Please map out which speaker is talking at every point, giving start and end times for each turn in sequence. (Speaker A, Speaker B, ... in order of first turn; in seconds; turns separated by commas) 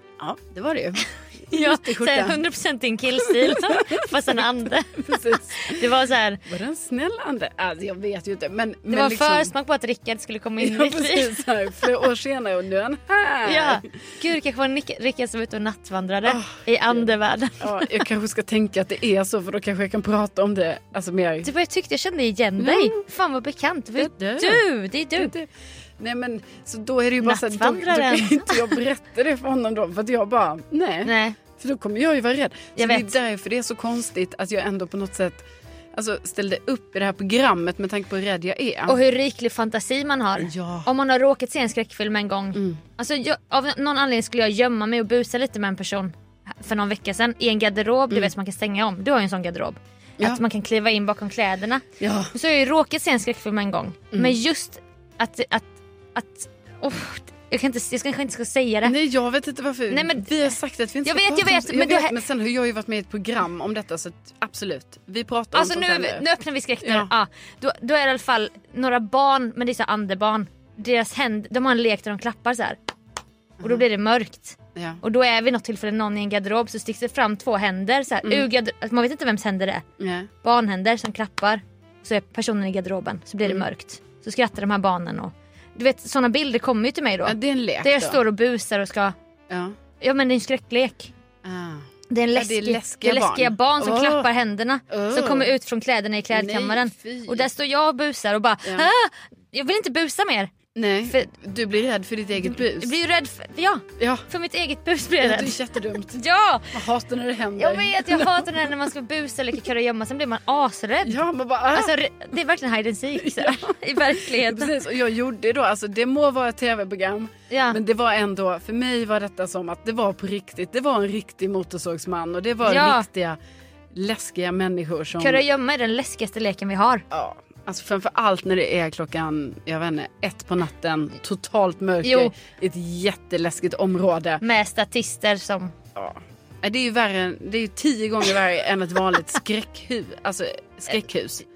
Speaker A: 0.2-2.4, Speaker B: 1.5-6.4, Speaker A: 3.2-5.9, Speaker A: 6.5-9.5, Speaker B: 8.9-11.3, Speaker A: 10.6-13.9, Speaker B: 13.4-17.9, Speaker A: 16.2-17.1, Speaker A: 17.6-21.5, Speaker B: 21.4-25.3, Speaker A: 22.6-23.0, Speaker A: 24.0-24.6, Speaker A: 25.2-25.5, Speaker A: 26.0-39.0, Speaker B: 27.2-28.6, Speaker B: 31.0-31.4, Speaker B: 32.8-33.1, Speaker B: 38.9-58.9, Speaker A: 40.4-40.9, Speaker A: 42.5-42.8, Speaker A: 52.0-52.3, Speaker A: 54.1-54.4, Speaker A: 58.8-66.2, Speaker B: 59.9-62.1, Speaker B: 65.5-72.8, Speaker A: 66.8-67.1, Speaker A: 73.6-73.8, Speaker B: 73.6-79.8, Speaker A: 74.7-75.0, Speaker A: 80.0-80.3, Speaker B: 80.4-89.1, Speaker A: 87.2-88.2, Speaker A: 89.5-89.7, Speaker B: 90.0-91.1, Speaker A: 91.4-94.3, Speaker B: 92.1-100.5, Speaker A: 94.9-95.5, Speaker A: 96.3-97.5, Speaker A: 100.7-102.9, Speaker B: 102.4-105.6, Speaker A: 104.0-104.2, Speaker A: 105.2-106.2, Speaker B: 106.1-106.8, Speaker A: 106.7-108.7, Speaker B: 107.6-111.2, Speaker A: 111.0-111.9, Speaker B: 111.7-114.7, Speaker A: 113.2-123.4, Speaker B: 117.5-117.8, Speaker B: 122.6-123.0, Speaker A: 123.9-125.4, Speaker B: 125.2-127.0, Speaker A: 127.1-134.4, Speaker B: 132.0-132.3, Speaker B: 134.4-135.7, Speaker A: 135.9-141.4